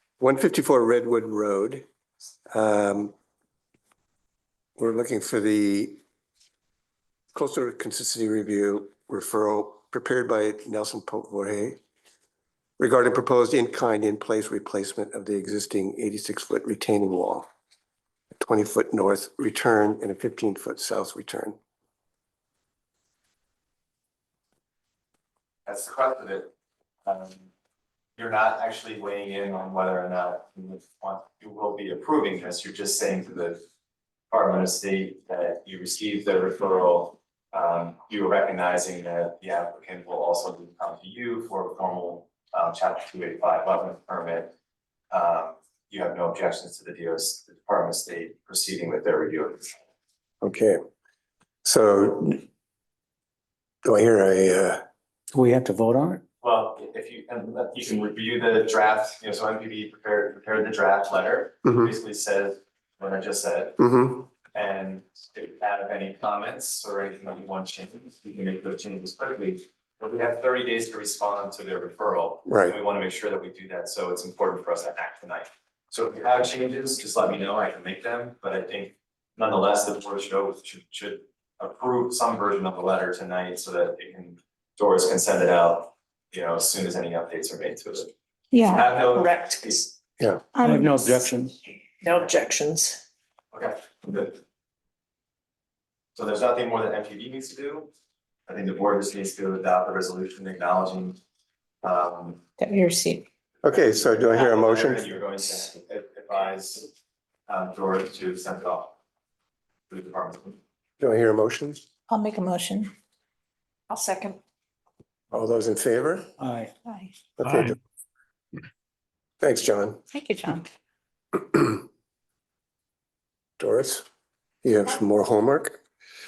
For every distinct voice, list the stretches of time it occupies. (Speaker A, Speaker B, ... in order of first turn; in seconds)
Speaker A: 0.2-1.9, 2.5-3.1, 4.8-6.0, 7.3-11.8, 12.8-17.5, 18.4-21.6, 50.4-50.8, 51.6-52.4, 53.8-54.8, 61.6-61.9, 63.8-64.3, 72.5-72.8, 103.6-105.1, 111.0-111.8, 115.3-116.3, 117.4-117.8, 119.4-120.0, 123.6-124.0, 124.6-125.8
Speaker B: 25.7-26.5, 27.1-27.5, 28.2-33.6, 34.3-44.5, 45.1-49.8, 56.4-63.8, 64.5-89.9, 93.5-94.4, 96.2-97.9, 98.5-101.2, 101.8-102.4, 103.7-106.9, 107.5-109.0, 109.9-110.6
Speaker C: 55.3-56.2, 90.6-91.5, 116.4-116.7
Speaker D: 88.5-88.9, 90.5-90.9, 102.6-103.2, 112.1-112.9, 116.8-117.2, 120.1-120.7
Speaker E: 89.1-89.7, 92.0-93.0, 113.9-114.4